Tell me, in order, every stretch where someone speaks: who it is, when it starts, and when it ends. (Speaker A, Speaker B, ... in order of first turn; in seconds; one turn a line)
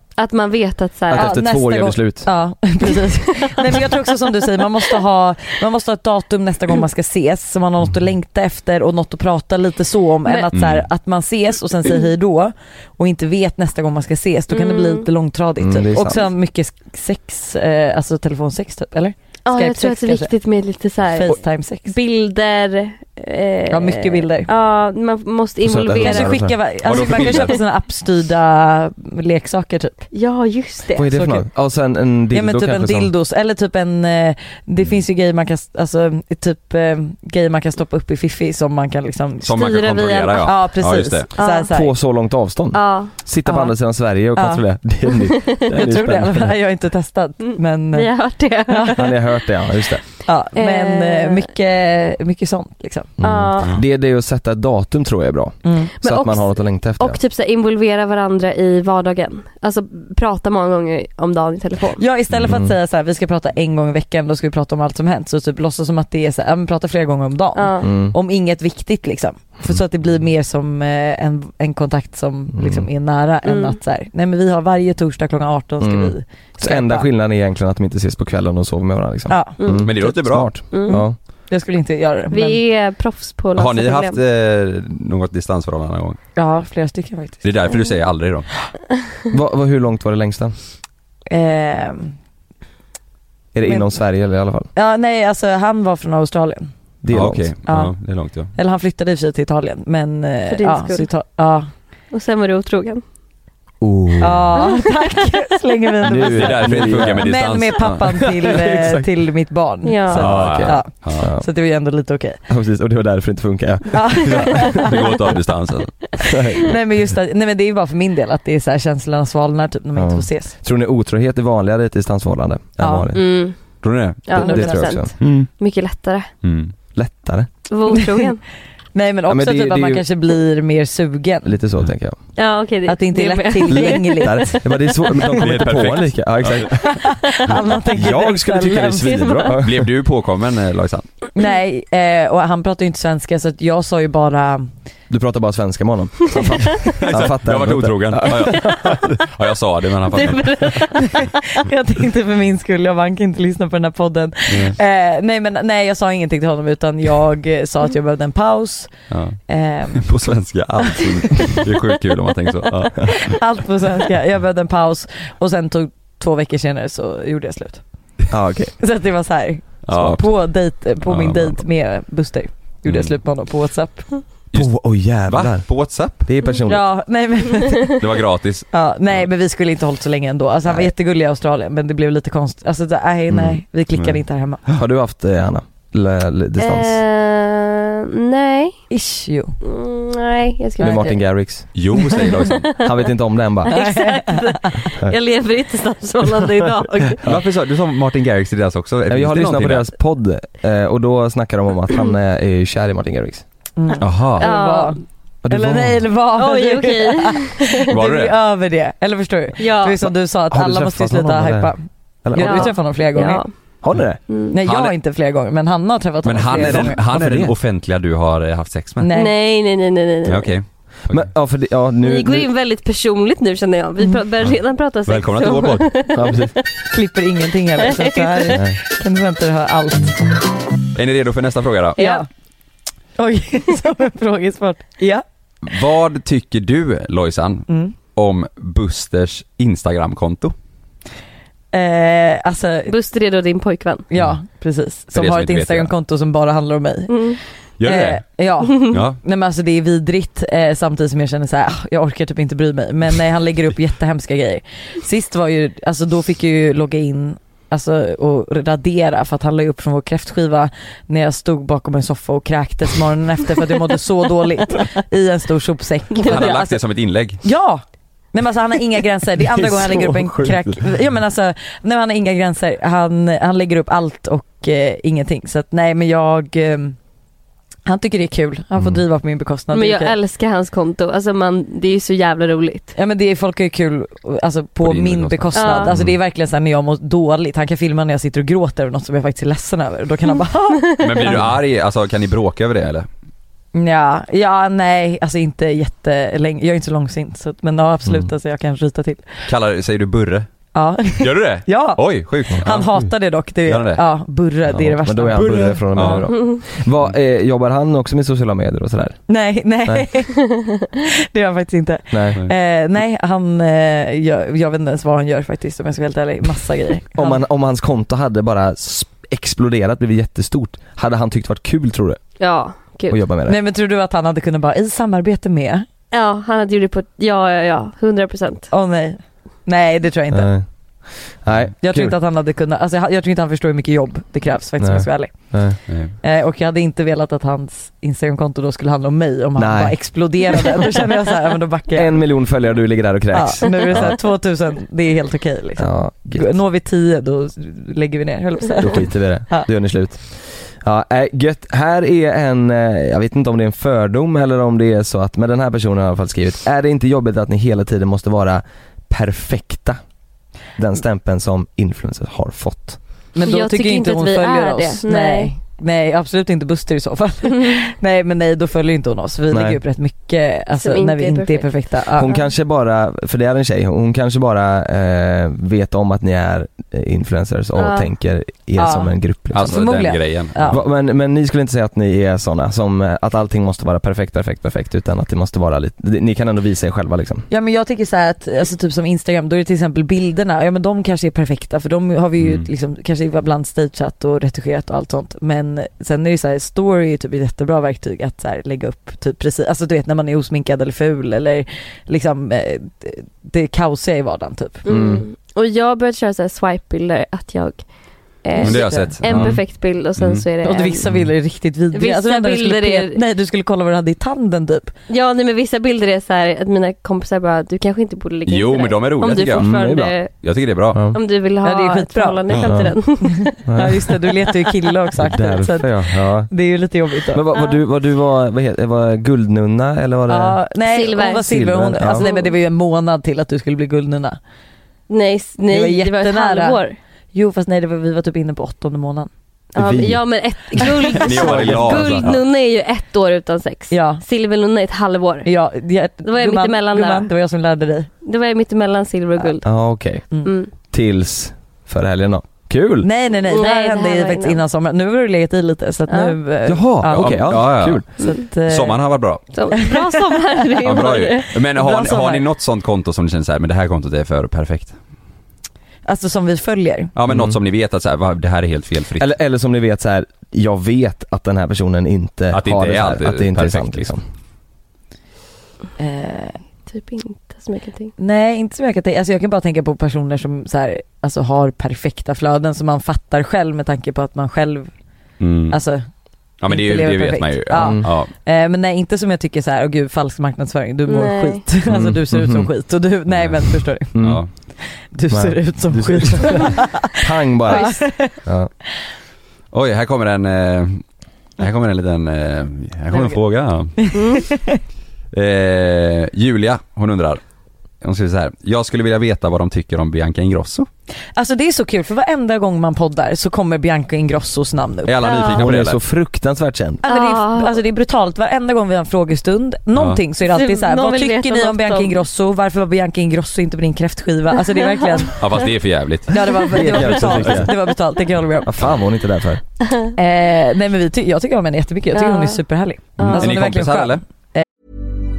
Speaker A: 0.2-1.4
Speaker B: 1.1-2.3
Speaker C: 1.1-20.3
Speaker A: 10.2-10.5
Speaker D: 10.5-10.8
Speaker A: 14.5-15.1
Speaker B: 15.6-16.2
Speaker A: 19.4-26.4
Speaker C: 21.1-21.9
Speaker C: 23.7-24.5
Speaker B: 25.6-26.6
Speaker C: 26.0-30.1
Speaker D: 26.8-27.5
Speaker A: 27.0-27.5
Speaker A: 30.1-31.1
Speaker B: 30.9-33.1
Speaker C: 31.1-31.4
Speaker C: 32.3-39.6
Speaker D: 39.4-41.3
Speaker A: 39.5-40.5
Speaker C: 40.4-41.9
Speaker A: 41.4-41.7
Speaker B: 41.5-46.5
Speaker A: 42.7-43.1
Speaker C: 43.5-43.7
Speaker C: 44.3-44.6
Speaker C: 45.7-48.1
Speaker A: 47.4-49.1
Speaker C: 48.7-49.0
Speaker B: 49.0-50.0
Speaker C: 50.2-53.1
Speaker A: 50.5-51.4
Speaker B: 53.2-57.2
Speaker A: 53.2-53.7
Speaker C: 55.6-55.9
Speaker A: 56.0-62.0
Speaker C: 62.0-77.1
Speaker D: 62.3-62.7
Speaker A: 67.5-67.9
Speaker B: 67.8-68.2
Speaker B: 72.5-72.9
Speaker A: 73.5-73.8
Speaker B: 75.8-81.2
Speaker C: 79.3-79.6
Speaker A: 79.6-79.9
Speaker D: 79.8-80.7
Speaker A: 80.7-81.0
Speaker C: 80.9-82.6
Speaker A: 82.3-84.2
Speaker D: 83.5-86.2
Speaker C: 86.3-87.4
Speaker D: 87.4-88.5
Speaker B: 89.3-90.5
Speaker C: 91.3-92.1
Speaker B: 93.5-94.7
Speaker C: 94.7-96.7
Speaker B: 97.0-97.5
Speaker D: 97.1-98.5
Speaker C: 97.7-101.7
Speaker A: 100.5-101.1
Speaker A: 102.1-103.0
Speaker B: 103.8-104.7
Speaker C: 104.2-112.4
Speaker B: 106.0-109.1
Speaker D: 106.2-108.3
Speaker A: 109.8-110.3
Speaker B: 110.1-111.5
Speaker D: 110.1-111.3
Speaker B: 112.5-114.9
Speaker C: 113.9-114.9
Speaker D: 114.5-116.2
Speaker B: 116.2-116.7
Speaker C: 116.6-120.5
Speaker B: 119.9-123.3
Speaker C: 122.8-123.1
Speaker A: 123.1-123.7
Speaker D: 123.8-124.4
Speaker A: 124.2-126.3
Speaker B: 124.3-125.3
Speaker C: 124.3-125.0
Speaker D: 125.2-125.5
Speaker D: 126.4-126.7
Speaker B: 126.9-127.5
Speaker A: 127.7-128.4
Speaker C: 128.9-131.6
Speaker B: 129.3-130.0
Speaker B: 131.4-132.2
Speaker A: 132.3-134.5
Speaker C: 132.8-134.9
Speaker B: 133.7-137.1
Speaker D: 135.2-136.8
Speaker C: 136.9-139.2
Speaker B: 137.9-139.9
Speaker A: 138.7-139.6
Speaker D: 139.6-141.1
Speaker C: 141.3-144.7
Speaker B: 145.1-149.0
Speaker D: 147.0-150.7
Speaker A: 150.1-151.2
Speaker C: 150.9-160.1
Speaker D: 154.5-154.8
Speaker D: 159.1-163.4
Speaker C: 163.1-167.8
Speaker B: 168.3-168.7
Speaker C: 168.8-174.2
Speaker D: 169.8-170.4
Speaker B: 169.9-170.2
Speaker D: 171.0-171.6
Speaker D: 172.8-173.2
Speaker D: 174.5-176.2
Speaker B: 174.5-176.9
Speaker C: 176.7-177.9
Speaker D: 178.0-178.7
Speaker C: 178.7-184.6
Speaker B: 183.3-183.6
Speaker B: 184.8-187.0
Speaker A: 186.6-188.8
Speaker C: 188.9-189.6
Speaker A: 189.6-191.2
Speaker B: 190.8-191.8
Speaker D: 191.7-192.9
Speaker A: 192.0-193.0
Speaker B: 192.8-194.0
Speaker C: 193.7-194.8
Speaker A: 193.7-197.2
Speaker D: 197.2-199.9
Speaker B: 199.1-203.4
Speaker C: 203.8-213.4
Speaker D: 204.0-204.5
Speaker A: 204.4-205.0
Speaker B: 205.4-206.1
Speaker A: 206.3-207.9
Speaker D: 207.9-208.4
Speaker A: 209.6-210.0
Speaker B: 210.0-212.8
Speaker A: 212.4-213.5
Speaker B: 213.8-214.2
Speaker A: 214.3-214.6
Speaker C: 214.5-217.0
Speaker D: 214.6-214.9
Speaker D: 216.2-219.1
Speaker B: 216.5-217.5
Speaker C: 219.0-219.3
Speaker A: 219.1-220.5
Speaker D: 220.2-221.3
Speaker B: 221.1-222.5
Speaker A: 222.0-226.5
Speaker D: 225.1-226.0
Speaker B: 226.1-226.5
Speaker C: 226.9-230.2
Speaker A: 227.9-228.6
Speaker D: 230.9-232.0
Speaker A: 231.9-232.2
Speaker C: 232.0-232.3
Speaker C: 233.2-235.2
Speaker D: 235.6-240.5
Speaker C: 237.7-237.9
Speaker C: 241.7-242.9
Speaker A: 242.9-244.0
Speaker C: 244.1-266.8
Speaker D: 245.1-245.9
Speaker A: 247.1-247.4
Speaker D: 247.8-248.2
Speaker D: 248.7-249.2
Speaker A: 266.1-266.8
Speaker D: 266.2-267.4
Speaker C: 267.4-277.0
Speaker B: 269.5-270.8
Speaker C: 277.9-280.1
Speaker A: 279.7-282.9
Speaker C: 282.9-291.5
Speaker D: 284.8-286.1
Speaker A: 285.5-285.9
Speaker A: 290.9-291.1
Speaker D: 291.0-293.1
Speaker C: 293.7-299.3
Speaker D: 298.1-298.3
Speaker D: 299.4-300.5
Speaker C: 300.7-306.2
Speaker D: 301.2-304.0
Speaker D: 304.7-306.3
Speaker B: 305.0-309.2
Speaker A: 306.3-306.6
Speaker C: 309.3-310.4
Speaker C: 311.0-317.4
Speaker B: 312.1-312.4
Speaker B: 317.1-322.2
Speaker A: 322.4-323.2
Speaker B: 323.1-323.6
Speaker C: 323.5-325.9
Speaker A: 326.1-328.7
Speaker C: 328.7-330.5
Speaker B: 330.3-332.1
Speaker C: 331.8-342.2
Speaker B: 334.8-335.8
Speaker D: 335.9-336.1
Speaker B: 339.6-340.2
Speaker B: 341.9-344.2
Speaker C: 343.3-349.7
Speaker B: 345.8-346.6
Speaker B: 348.8-360.0
Speaker B: 360.8-363.0
Speaker C: 363.3-372.3
Speaker A: 363.4-365.5
Speaker B: 369.5-369.8
Speaker A: 370.7-371.9
Speaker B: 372.1-380.0
Speaker A: 377.8-378.1
Speaker C: 378.8-380.8
Speaker D: 379.5-380.8
Speaker B: 380.7-387.5
Speaker C: 387.5-404.8
Speaker D: 392.4-392.7
Speaker A: 404.8-407.9
Speaker B: 404.9-405.2
Speaker A: 408.4-411.0
Speaker C: 408.6-409.5
Speaker D: 408.6-410.4
Speaker B: 409.3-409.6
Speaker C: 410.6-414.9
Speaker D: 411.1-411.3
Speaker A: 411.9-413.2
Speaker A: 415.1-420.3
Speaker D: 418.4-419.7
Speaker B: 419.6-420.3
Speaker D: 420.4-421.0
Speaker B: 420.9-421.2
Speaker A: 421.1-423.5
Speaker C: 421.6-422.4
Speaker D: 422.5-422.9
Speaker B: 422.6-422.9
Speaker C: 423.2-427.4
Speaker B: 423.6-424.0
Speaker B: 425.2-426.5
Speaker B: 427.3-430.6
Speaker A: 427.5-427.8
Speaker C: 430.3-434.4
Speaker A: 430.8-431.5
Speaker B: 431.4-432.2
Speaker A: 432.0-432.5
Speaker A: 435.1-436.9
Speaker C: 435.7-436.8
Speaker C: 437.3-439.3
Speaker A: 439.7-445.5
Speaker B: 439.8-440.2
Speaker B: 440.8-442.3
Speaker D: 441.2-442.4
Speaker C: 443.9-444.2
Speaker C: 445.4-448.1
Speaker A: 446.2-447.3
Speaker A: 448.2-449.7
Speaker B: 449.6-450.3
Speaker A: 450.4-450.7
Speaker B: 450.8-453.1
Speaker C: 453.0-460.3
Speaker A: 453.5-454.6
Speaker A: 456.1-456.4
Speaker B: 456.6-458.0
Speaker D: 457.1-459.6
Speaker A: 459.5-461.4
Speaker D: 460.8-465.0
Speaker C: 461.7-462.4
Speaker C: 466.1-467.1
Speaker D: 467.1-469.3
Speaker B: 467.3-467.6
Speaker B: 469.2-474.2
Speaker D: 472.5-474.1
Speaker C: 476.0-476.6
Speaker A: 476.9-478.1
Speaker C: 478.2-484.9
Speaker D: 485.4-485.8
Speaker C: 485.7-486.1
Speaker D: 486.6-488.3
Speaker C: 486.6-498.4
Speaker B: 487.7-488.1
Speaker A: 491.1-491.6
Speaker B: 491.9-492.7
Speaker D: 493.3-494.5
Speaker B: 494.1-494.4
Speaker B: 495.3-498.7
Speaker A: 497.7-498.0
Speaker D: 499.7-501.0
Speaker D: 501.6-504.0
Speaker C: 504.0-504.8
Speaker A: 504.1-504.5
Speaker D: 505.3-507.4
Speaker D: 508.0-510.9
Speaker C: 511.4-515.1
Speaker D: 515.0-516.0
Speaker A: 515.2-515.6
Speaker B: 515.5-517.0
Speaker C: 517.0-525.4
Speaker A: 517.0-517.8
Speaker D: 519.9-520.2
Speaker A: 520.5-522.2
Speaker D: 525.4-527.6
Speaker C: 526.3-528.7
Speaker B: 526.7-527.7
Speaker B: 528.6-529.6
Speaker C: 530.1-534.6
Speaker A: 532.1-532.6
Speaker A: 533.2-533.4
Speaker D: 533.2-534.2